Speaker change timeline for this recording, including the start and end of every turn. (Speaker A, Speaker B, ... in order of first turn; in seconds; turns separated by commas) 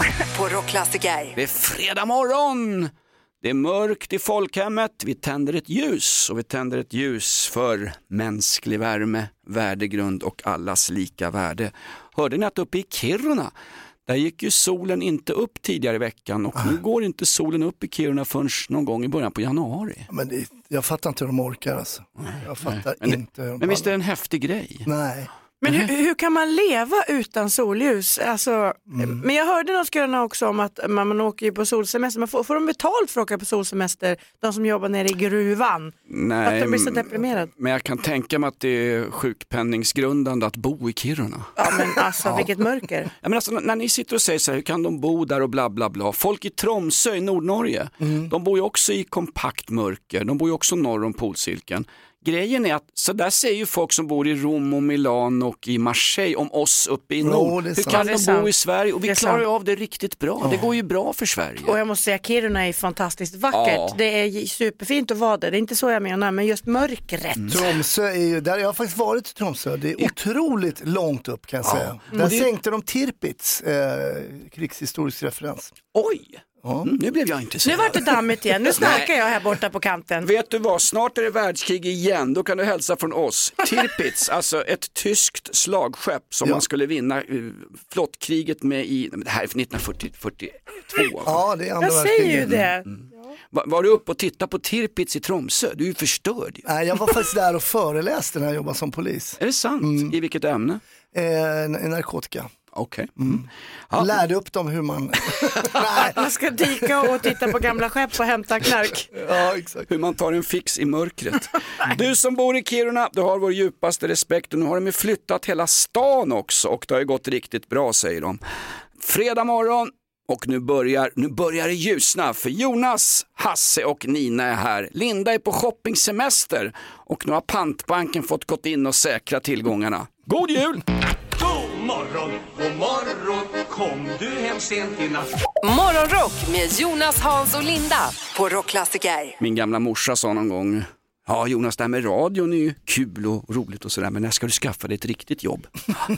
Speaker A: 0.3-1.3, Speaker B: 1.3-2.9, Speaker B: 3.4-13.5, Speaker B: 14.1-20.1, Speaker C: 20.1-23.9, Speaker B: 22.2-24.9, Speaker C: 24.9-25.3, Speaker B: 25.6-25.9, Speaker D: 25.6-35.9, Speaker C: 28.9-29.2, Speaker B: 36.1-41.5, Speaker D: 36.4-37.5, Speaker D: 41.6-43.1, Speaker B: 43.2-61.8, Speaker C: 48.0-48.3, Speaker C: 57.2-58.1, Speaker D: 57.9-58.5, Speaker D: 59.1-59.4, Speaker C: 60.4-60.6, Speaker D: 61.6-67.6, Speaker B: 63.5-64.0, Speaker C: 67.5-75.7, Speaker B: 71.6-72.5, Speaker B: 75.9-78.1, Speaker C: 76.6-76.9, Speaker D: 77.6-80.3, Speaker B: 78.8-79.1, Speaker B: 80.2-91.4, Speaker C: 91.2-92.6, Speaker D: 91.8-92.8, Speaker B: 92.5-93.0, Speaker B: 93.5-96.6, Speaker C: 96.7-100.1, Speaker B: 99.4-100.8, Speaker C: 101.1-102.5, Speaker B: 102.7-103.4, Speaker C: 103.2-106.2, Speaker B: 103.9-104.1, Speaker D: 106.0-109.1, Speaker C: 109.1-109.9, Speaker B: 109.9-118.4, Speaker B: 119.0-130.8, Speaker E: 131.4-135.3, Speaker A: 135.6-139.3, Speaker B: 139.4-145.9